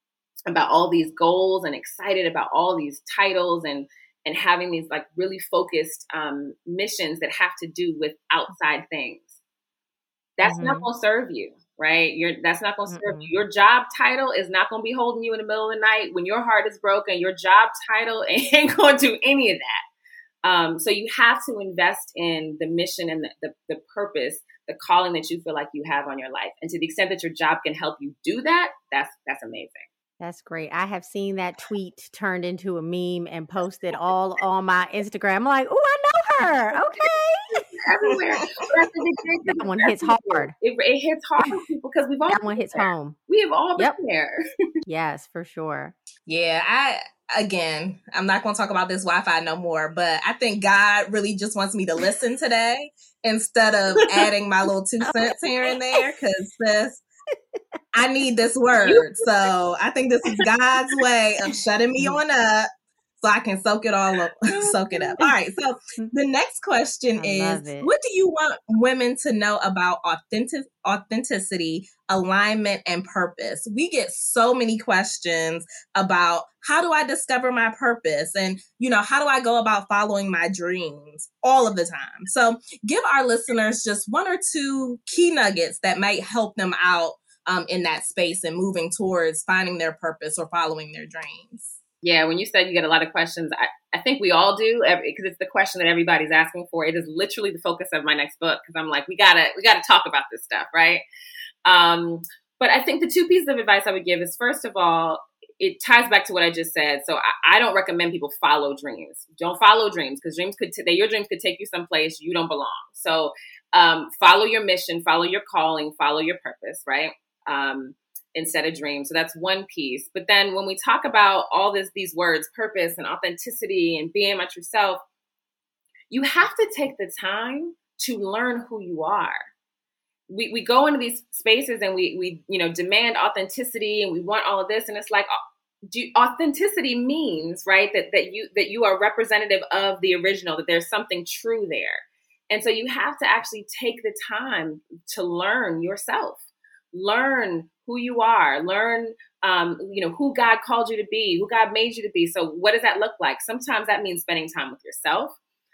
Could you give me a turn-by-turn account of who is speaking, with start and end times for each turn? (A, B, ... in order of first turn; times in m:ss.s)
0:00.5-0:09.4 A
0:10.4-0:19.8 A
0:10.4-0:10.9 B
0:12.9-0:13.3 B
0:20.4-0:29.8 A
0:30.2-0:37.6 B
0:36.7-0:37.0 A
0:37.7-0:44.4 A
0:39.6-0:40.5 B
0:42.3-0:43.2 B
0:44.8-0:46.0 B
0:46.3-0:57.0 C
0:55.0-0:56.0 B
0:57.9-1:02.7 C
0:58.8-0:59.2 A
1:03.2-1:31.8 C
1:04.5-1:05.3 B
1:07.2-1:07.9 B
1:32.0-1:41.0 A
1:41.6-2:05.0 A
2:06.1-2:09.5 A
2:10.3-2:15.3 A
2:15.9-2:26.4 A
2:26.9-2:35.4 A